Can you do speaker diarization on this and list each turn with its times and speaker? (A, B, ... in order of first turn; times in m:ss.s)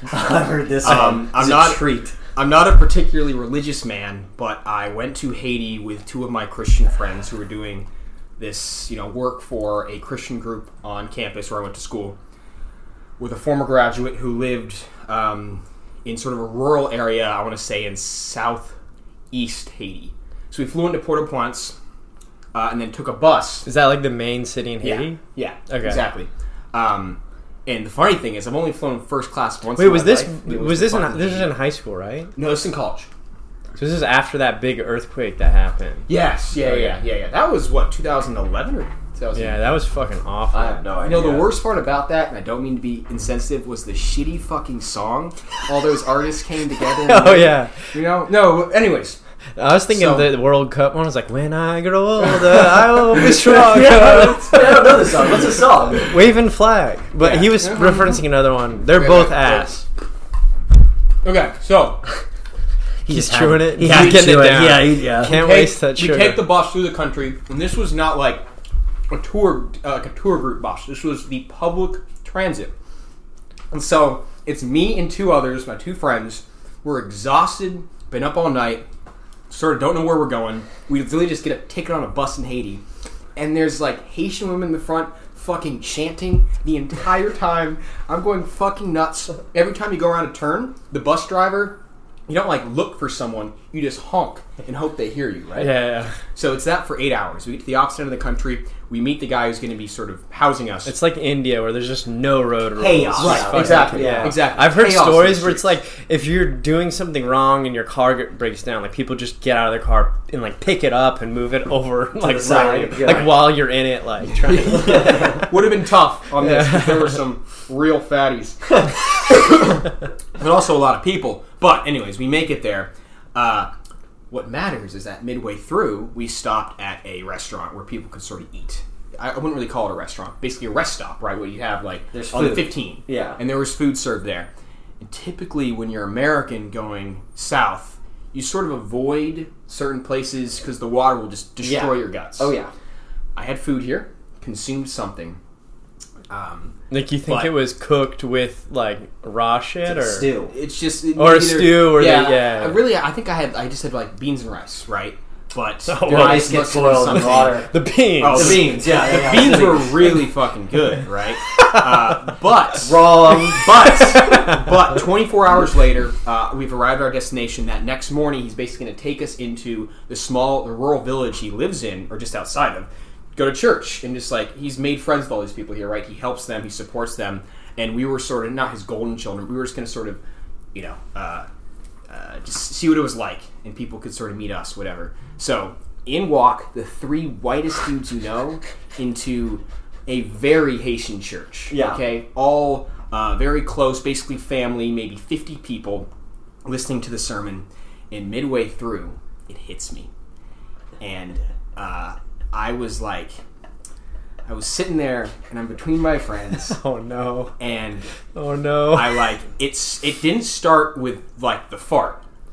0:00.1-0:02.2 A
0:00.8-0:12.2 B
0:13.2-0:18.7 B
0:19.3-0:21.8 B
0:22.5-0:23.7 B
0:23.6-0:26.0 C
0:24.8-0:31.5 B
0:29.8-0:32.3 C
0:32.3-0:33.1 B
0:33.8-0:37.0 C
0:36.1-0:39.6 B
0:39.3-0:40.8 C
0:40.5-0:41.6 A
0:41.0-0:49.2 B
0:47.0-0:47.9 C
0:49.6-0:55.0 C
0:49.9-0:50.3 B
0:52.2-0:53.3 B
0:53.2-0:56.1 A
0:56.0-0:59.8 C
0:57.2-0:58.2 B
0:58.9-0:59.7 B
1:01.2-1:02.0 B
1:03.0-1:05.4 A
1:03.1-1:06.5 C
1:03.8-1:08.4 B
1:09.1-1:12.7 B
1:13.7-1:18.8 B
1:19.5-1:22.8 B
1:23.3-1:35.8 B
1:35.6-1:36.2 C
1:36.3-1:40.9 B
1:40.8-1:55.5 C
1:42.8-1:44.5 A
1:43.2-1:45.7 B
1:52.2-1:53.5 A
1:54.4-1:59.8 B
1:54.8-1:55.4 A
1:56.4-1:57.2 C
2:00.4-2:03.7 B
2:04.3-2:22.5 B
2:12.1-2:13.4 A
2:21.6-2:22.7 A
2:23.3-2:25.4 B
2:26.3-2:27.5 B
2:26.9-2:30.3 C
2:29.8-2:30.5 A
2:30.5-2:37.7 B
2:31.1-2:32.8 C
2:35.8-2:38.7 C
2:36.0-2:37.7 A
2:38.2-3:00.2 B
2:38.3-2:40.2 A
2:42.8-2:43.8 A
3:00.7-3:01.5 B
3:02.1-3:16.1 B
3:11.7-3:12.0 A
3:16.6-3:20.1 B
3:21.0-3:23.4 B
3:24.4-3:26.8 B
3:26.6-3:27.5 C
3:27.6-3:28.1 B
3:28.3-3:29.3 C
3:28.9-3:32.2 B